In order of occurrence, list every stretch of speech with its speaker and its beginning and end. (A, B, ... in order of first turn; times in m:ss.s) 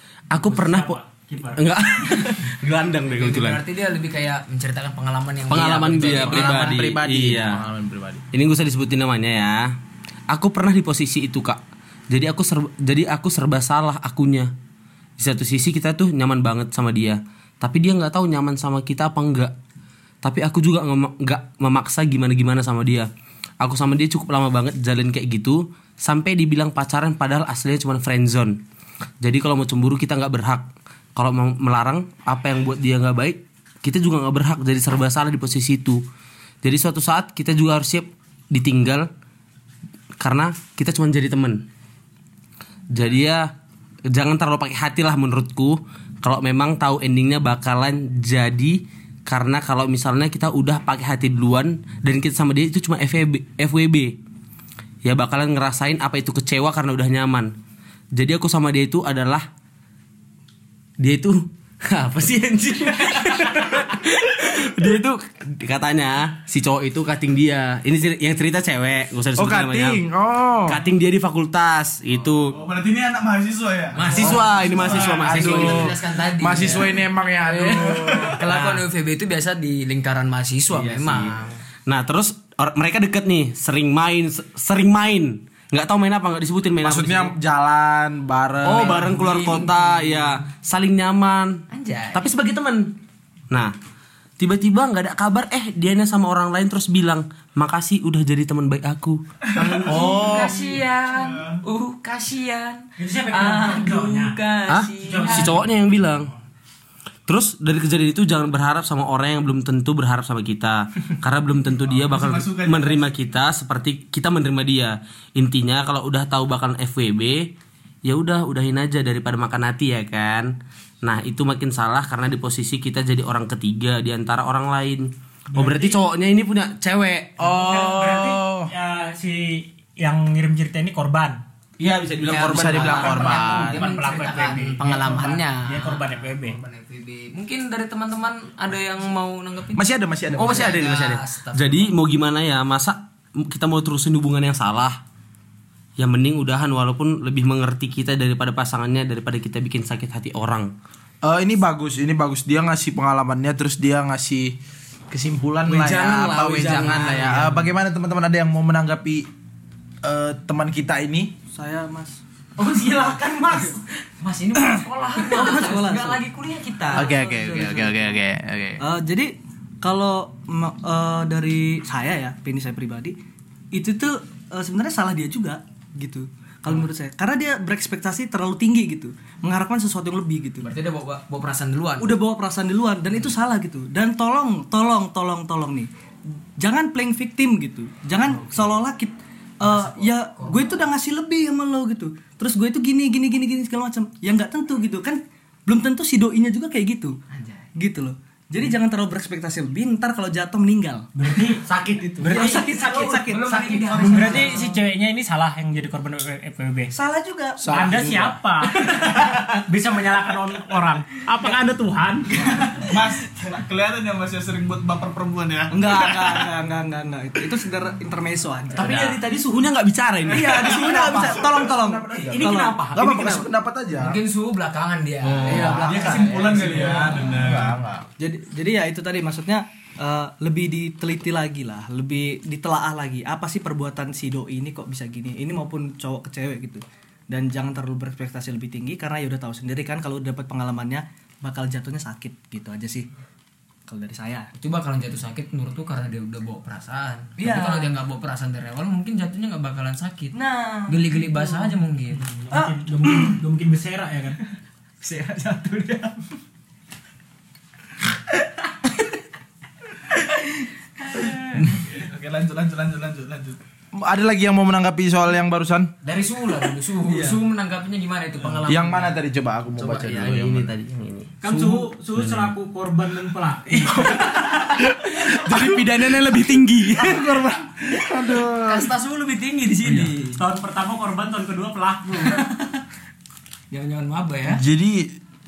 0:00.3-0:01.0 A
0:00.5-0:02.2 B
0:01.6-0:03.6 A
0:03.1-0:06.8 C
0:05.5-0:07.6 A
0:06.0-0:08.2 D
0:08.3-0:09.7 A
0:10.3-0:11.6 A
0:12.1-0:14.5 A
0:15.2-0:19.6 A
0:20.2-0:23.1 A
0:23.6-0:28.6 A
0:29.2-0:36.0 A
0:36.6-0:39.1 A
0:40.2-0:41.6 A
0:42.9-0:43.5 A
0:44.1-0:54.2 A
0:55.0-0:57.5 A
0:58.2-0:59.5 A
1:01.0-1:10.0 A
1:09.4-1:10.8 D
1:10.7-1:12.6 A
1:12.5-1:15.3 E
1:14.0-1:21.6 C
1:14.1-1:15.9 A
1:14.2-1:18.4 D
1:16.6-1:16.8 A
1:17.9-1:18.8 A
1:18.0-1:18.3 E
1:20.7-1:27.3 A
1:26.8-1:29.2 D
1:28.6-1:31.6 A
1:28.7-1:30.4 C
1:31.7-1:32.3 C
1:32.1-1:32.9 A
1:34.4-1:40.4 A
1:39.6-1:40.8 D
1:39.8-1:45.5 C
1:41.3-1:41.6 E
1:43.0-1:44.4 B
1:44.7-1:46.3 A
1:45.0-1:45.6 B
1:47.3-1:57.5 A
1:51.9-1:53.2 E
1:58.0-2:00.5 A
2:01.0-2:07.8 A
2:05.5-2:06.0 B
2:07.4-2:08.7 D
2:07.5-2:11.4 B
2:11.8-2:13.3 A
2:12.3-2:13.8 D
2:12.3-2:21.9 C
2:13.2-2:16.6 B
2:19.8-2:20.8 D
2:20.4-2:25.0 A
2:26.0-2:30.7 A
2:31.2-2:34.6 D
2:35.1-2:39.3 D
2:35.7-2:37.7 A
2:40.0-2:41.3 D
2:41.5-2:42.2 F
2:42.6-2:47.3 C
2:45.2-2:46.2 F
2:46.9-2:48.1 F
2:46.9-2:48.8 D
2:48.8-2:53.2 F
2:53.7-3:00.7 F
3:00.6-3:02.2 C
3:02.0-3:05.9 F
3:06.6-3:17.2 F
3:09.6-3:10.8 C
3:17.3-3:17.7 C
3:17.8-3:21.1 F
3:21.2-3:21.6 B
3:21.6-3:22.4 A
3:22.2-3:23.2 B
3:22.2-3:24.7 F
3:22.8-3:24.7 C
3:24.0-3:26.9 B
3:26.9-3:27.7 F
3:27.6-3:28.4 D
3:27.7-3:32.8 B
3:28.9-3:29.4 F
3:32.8-3:36.4 E
3:35.7-3:39.2 F
3:38.7-3:41.3 A
3:40.3-3:42.8 F
3:41.2-3:44.2 D
3:42.2-3:43.5 A
3:43.9-3:47.4 C
3:45.2-3:47.7 A
3:45.4-3:48.1 D
3:48.2-4:03.1 F
4:03.9-4:04.5 F
4:04.6-4:10.3 C
4:07.4-4:07.9 F
4:10.3-4:11.8 F
4:10.9-4:12.4 C
4:12.3-4:14.4 B
4:12.5-4:13.4 F
4:15.0-4:16.2 F
4:20.1-4:21.7 F
4:21.8-4:23.6 E
4:23.9-4:25.9 D
4:26.0-4:29.2 C
4:28.6-4:30.7 D
4:29.8-4:30.1 C
4:30.0-4:32.5 A
4:31.4-4:34.2 B
4:33.9-4:37.2 A
4:35.0-4:35.8 D
4:36.9-4:38.9 D
4:38.6-4:40.4 C
4:39.8-4:40.1 A
4:40.4-4:42.5 B
4:42.2-4:42.5 C
4:43.7-4:44.6 C
4:44.4-4:45.2 D